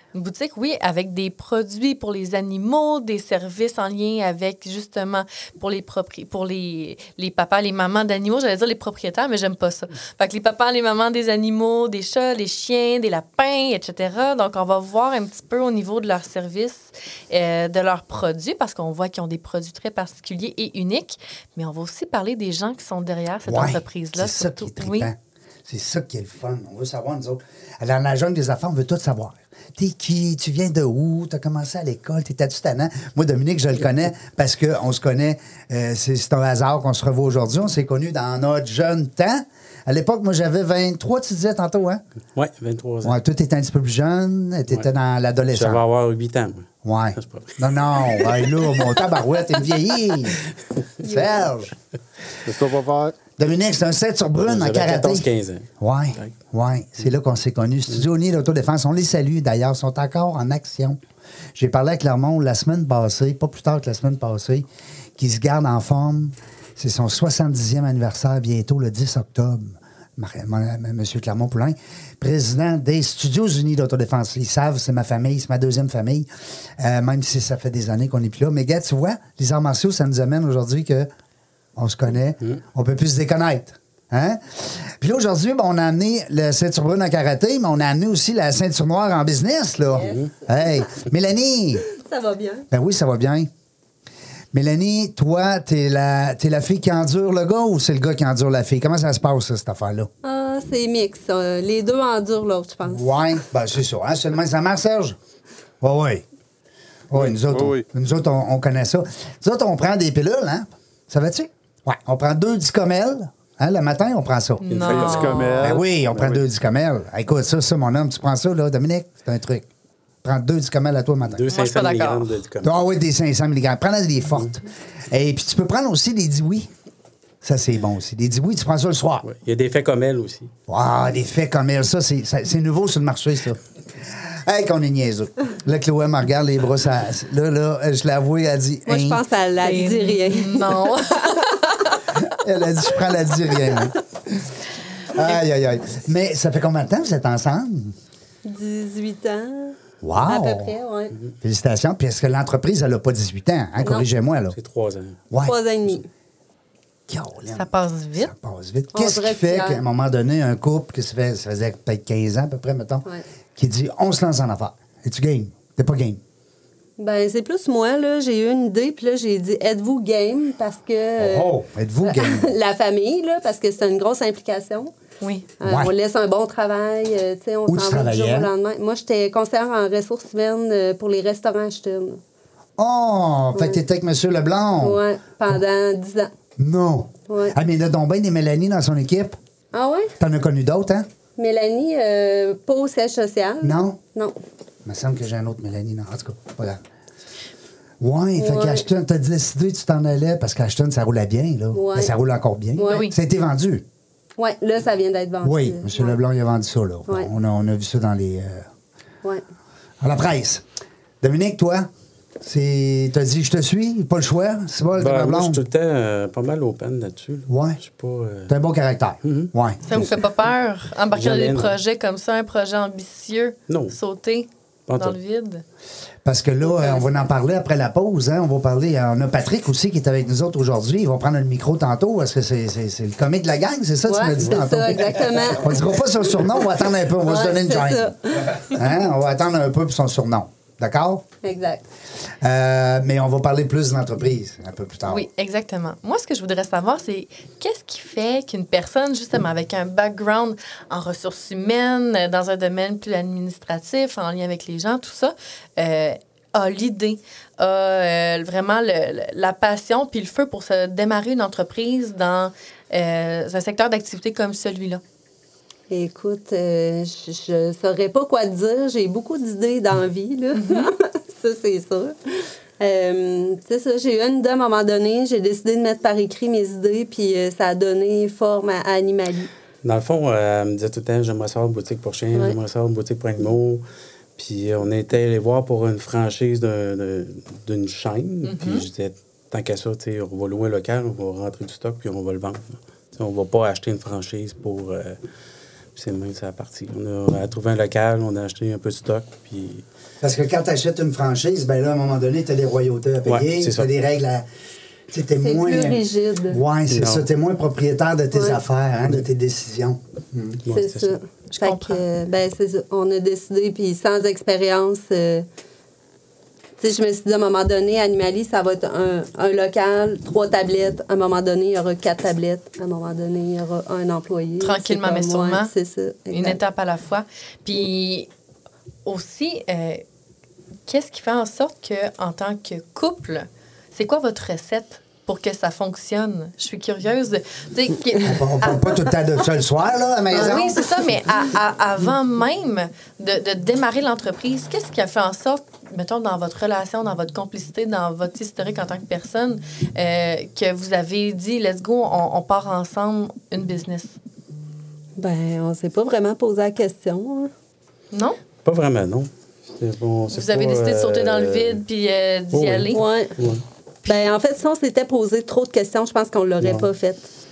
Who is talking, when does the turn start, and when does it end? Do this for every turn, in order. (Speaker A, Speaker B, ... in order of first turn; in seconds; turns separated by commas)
Speaker A: 0.1-25.1, Speaker B: 23.4-42.0, Speaker C: 42.3-43.2, Speaker B: 43.0-45.8, Speaker C: 45.5-47.6, Speaker B: 46.8-50.4, Speaker B: 51.0-51.7, Speaker D: 52.4-53.1, Speaker B: 53.4-55.3, Speaker C: 54.4-56.3, Speaker B: 55.8-61.0, Speaker B: 61.5-76.3, Speaker B: 76.8-81.1, Speaker B: 81.8-91.8, Speaker E: 91.9-92.7, Speaker B: 92.7-93.5, Speaker B: 94.5-100.1, Speaker E: 100.2-103.0, Speaker B: 102.9-105.2, Speaker B: 105.8-106.2, Speaker B: 107.1-119.7, Speaker D: 107.2-107.8, Speaker A: 114.6-115.8, Speaker D: 114.8-116.4, Speaker B: 120.2-121.4, Speaker C: 121.3-122.8, Speaker A: 121.5-122.4, Speaker B: 122.6-126.7, Speaker B: 127.4-129.2, Speaker C: 129.2-130.5, Speaker B: 130.7-133.6, Speaker B: 134.4-139.2, Speaker E: 138.9-140.7, Speaker A: 139.6-142.0, Speaker B: 142.2-143.9, Speaker B: 145.1-147.9, Speaker E: 148.4-151.1, Speaker B: 150.0-150.7, Speaker B: 151.4-154.6, Speaker E: 153.8-154.1, Speaker C: 154.5-155.2, Speaker B: 155.3-155.5, Speaker E: 155.4-156.1, Speaker B: 157.1-163.0, Speaker A: 157.5-158.3, Speaker E: 158.9-159.8, Speaker B: 163.6-166.2, Speaker E: 167.0-174.9, Speaker B: 171.2-172.6, Speaker A: 175.2-175.5, Speaker E: 175.6-182.2, Speaker B: 175.7-175.9, Speaker B: 177.7-178.5, Speaker B: 182.8-185.6, Speaker E: 183.5-183.8, Speaker E: 184.8-186.3, Speaker B: 186.6-189.4, Speaker E: 187.3-187.6, Speaker E: 189.7-190.1, Speaker B: 190.2-191.1, Speaker E: 191.4-194.3, Speaker B: 193.6-194.0, Speaker B: 194.8-196.8, Speaker B: 198.0-203.8, Speaker E: 198.3-198.8, Speaker E: 201.7-202.1, Speaker E: 202.8-203.0, Speaker A: 202.9-203.1, Speaker E: 204.4-206.2, Speaker B: 205.4-208.7, Speaker B: 210.0-210.6, Speaker B: 211.2-211.9, Speaker B: 212.4-215.6, Speaker C: 215.0-218.5, Speaker B: 217.5-217.8, Speaker B: 218.5-219.8, Speaker C: 219.2-219.5, Speaker A: 219.8-225.6, Speaker C: 221.1-221.7, Speaker C: 223.7-223.9, Speaker C: 224.9-225.2, Speaker B: 226.2-241.2, Speaker E: 234.1-235.8, Speaker E: 237.2-238.6, Speaker E: 241.4-241.8, Speaker B: 242.4-245.3, Speaker A: 245.1-265.0, Speaker E: 265.9-272.1, Speaker A: 270.5-270.9, Speaker E: 272.8-279.5, Speaker C: 279.8-283.8, Speaker C: 284.4-295.2, Speaker A: 288.4-288.9, Speaker C: 295.9-299.8, Speaker B: 300.2-304.4, Speaker C: 303.2-303.9, Speaker B: 305.1-310.6, Speaker E: 305.4-306.6, Speaker C: 306.9-307.2, Speaker E: 308.3-308.6, Speaker C: 310.6-311.1, Speaker E: 310.7-315.4, Speaker A: 311.5-312.0, Speaker E: 316.8-326.6, Speaker A: 324.6-325.7, Speaker A: 326.3-328.3, Speaker A: 329.0-330.0, Speaker A: 330.9-339.0, Speaker B: 338.2-340.9, Speaker A: 340.3-354.1, Speaker E: 355.2-357.5, Speaker A: 358.1-358.4, Speaker C: 358.6-361.8, Speaker A: 360.3-363.0, Speaker C: 362.5-363.6, Speaker E: 362.9-363.3, Speaker E: 364.0-367.3